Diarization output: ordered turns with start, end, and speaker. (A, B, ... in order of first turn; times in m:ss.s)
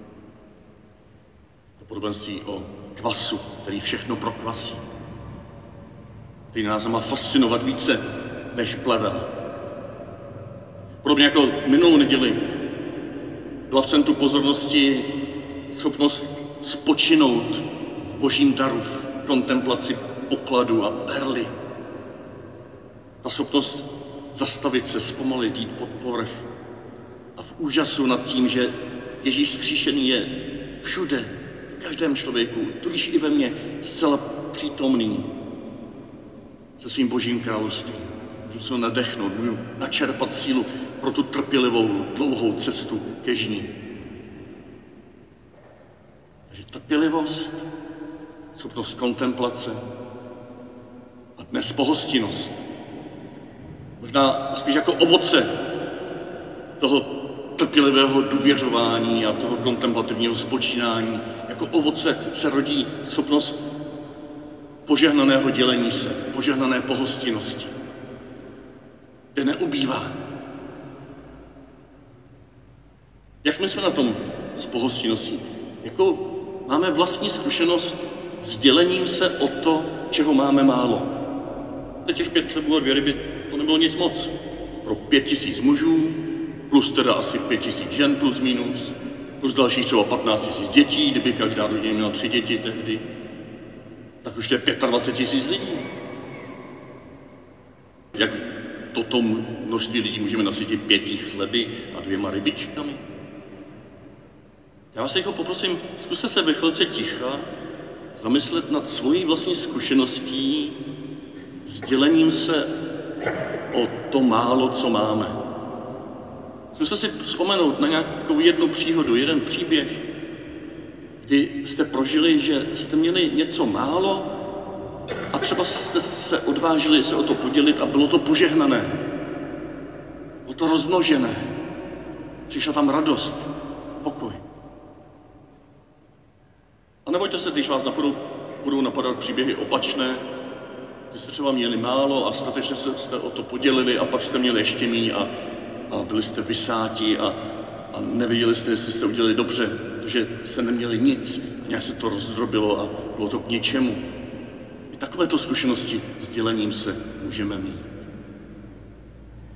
0:01.8-0:04.8 A
0:06.5-0:09.3 A
0:11.0-0:12.5 A
0:13.7-0:21.5 A
0:23.2-0:26.4 A
0:27.4-0:35.3 A
0:36.8-0:43.7 A
0:46.5-0:47.6 A
0:48.5-0:49.8 A
0:51.4-0:52.6 A
0:54.0-0:55.5 A
0:56.8-1:03.6 A
1:04.8-1:07.7 A
1:09.3-1:10.2 A
1:13.4-1:21.1 A
1:22.0-1:33.0 A
1:34.2-1:35.9 A
1:38.1-1:43.0 A
1:44.9-1:47.5 A
1:48.2-1:50.8 A
1:51.6-1:52.7 A
1:53.7-1:55.4 A
1:56.7-2:00.0 A
2:01.2-2:04.3 A
2:05.3-2:09.0 A
2:10.4-2:11.5 A
2:12.5-2:13.5 A
2:14.0-2:14.4 A
2:17.0-2:20.2 A
2:21.1-2:25.3 A
2:25.9-2:27.4 A
2:27.9-2:34.0 A
2:34.9-2:37.9 A